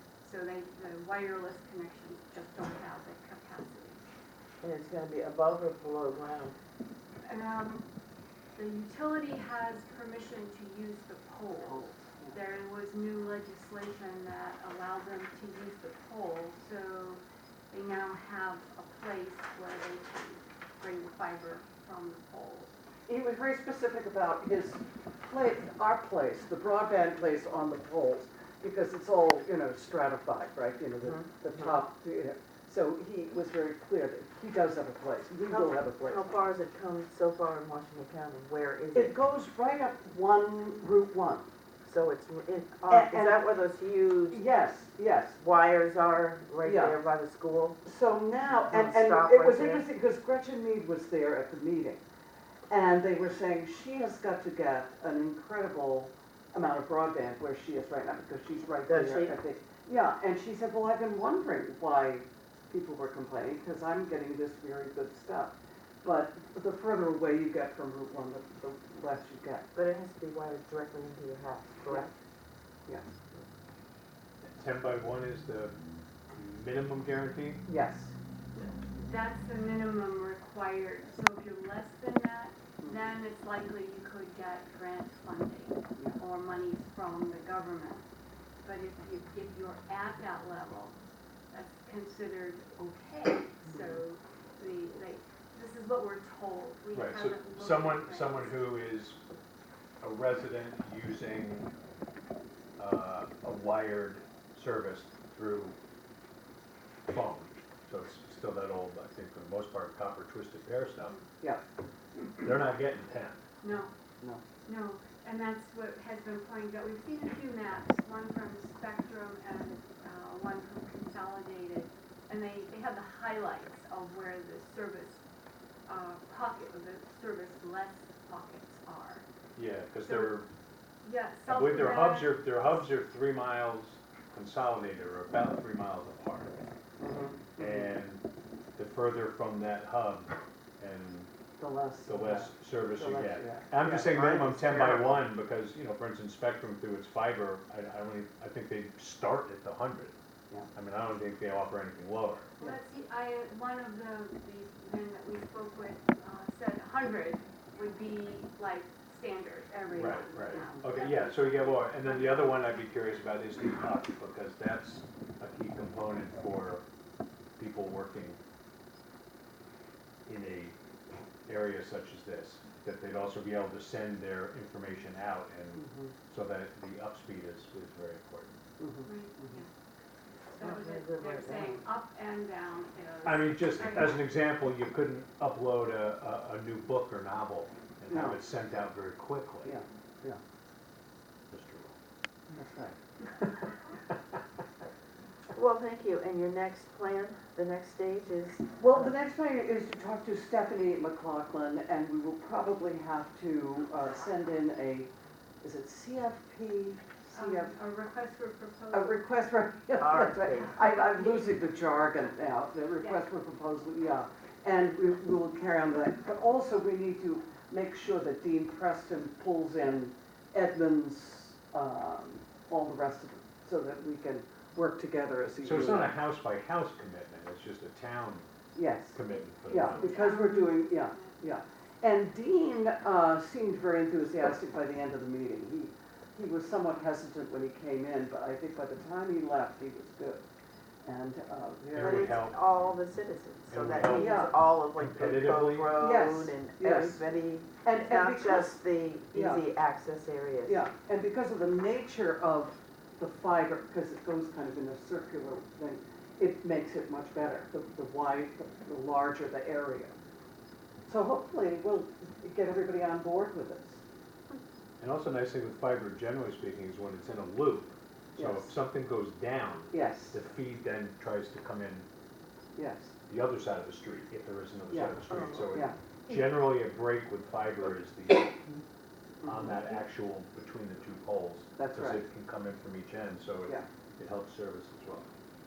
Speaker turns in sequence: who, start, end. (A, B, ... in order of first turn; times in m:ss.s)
0:00.2-0:04.0 A
0:04.6-0:06.6 B
0:07.2-0:07.9 A
0:08.6-0:22.8 A
0:11.6-0:12.4 C
0:23.1-0:36.4 C
0:31.0-0:31.8 B
0:35.5-0:39.2 B
0:38.9-0:41.5 C
0:41.8-0:44.4 B
0:42.9-0:43.4 C
0:44.3-0:45.4 C
0:45.4-0:47.8 B
0:46.6-0:47.0 C
0:47.8-0:52.0 C
0:48.5-0:49.8 B
0:52.7-1:09.7 C
0:58.9-0:59.3 B
1:09.7-1:12.1 B
1:12.9-1:13.2 C
1:14.4-1:15.8 D
1:16.3-1:17.7 D
1:17.6-1:18.1 C
1:19.0-1:28.0 A
1:28.6-1:31.0 A
1:31.5-1:38.5 A
1:33.7-1:34.0 C
1:36.9-1:39.2 D
1:40.0-1:41.7 D
1:42.8-1:45.8 D
1:47.1-1:51.2 D
1:52.4-1:53.4 D
1:53.6-1:53.9 A
1:54.6-2:05.2 A
2:05.8-2:09.2 A
2:09.5-2:10.5 D
2:10.0-2:10.4 A
2:11.0-2:12.7 A
2:11.5-2:16.6 D
2:17.0-2:17.9 C
2:17.6-2:18.2 D
2:18.8-2:21.3 D
2:21.6-2:25.3 C
2:22.0-2:30.1 D
2:30.7-2:32.5 D
2:32.6-2:42.7 A
2:39.9-2:40.9 C
2:39.9-2:46.8 D
2:47.6-2:48.4 D
2:50.2-2:50.8 D
2:51.5-2:58.6 D
2:55.7-2:56.1 C
2:58.8-2:59.6 C
2:59.0-2:59.7 A
3:00.5-3:04.2 A
3:00.6-3:01.8 B
3:03.2-3:09.8 D
3:08.1-3:08.4 C
3:09.6-3:10.4 C
3:11.5-3:12.0 D
3:12.5-3:13.0 C
3:15.5-3:19.1 B
3:18.8-3:25.1 C
3:25.6-3:27.8 C
3:27.3-3:29.3 A
3:28.9-3:46.1 C
3:30.0-3:31.3 B
3:45.6-3:48.5 D
3:48.7-4:00.4 C
3:49.1-3:50.2 D
3:49.8-3:51.4 A
4:01.0-4:02.4 C
4:01.9-4:02.7 D
4:02.0-4:10.8 B
4:03.7-4:06.0 D
4:04.1-4:04.5 C
4:05.9-4:07.2 C
4:07.8-4:08.8 C
4:09.3-4:09.6 C
4:10.6-4:20.1 C
4:21.0-4:24.0 C
4:25.0-4:32.1 D
4:28.4-4:28.7 C
4:29.9-4:30.4 C
4:32.8-4:33.2 C
4:33.3-4:38.8 D
4:34.9-4:35.2 C
4:39.4-4:39.8 C
4:39.4-4:45.3 D
4:41.8-4:42.2 C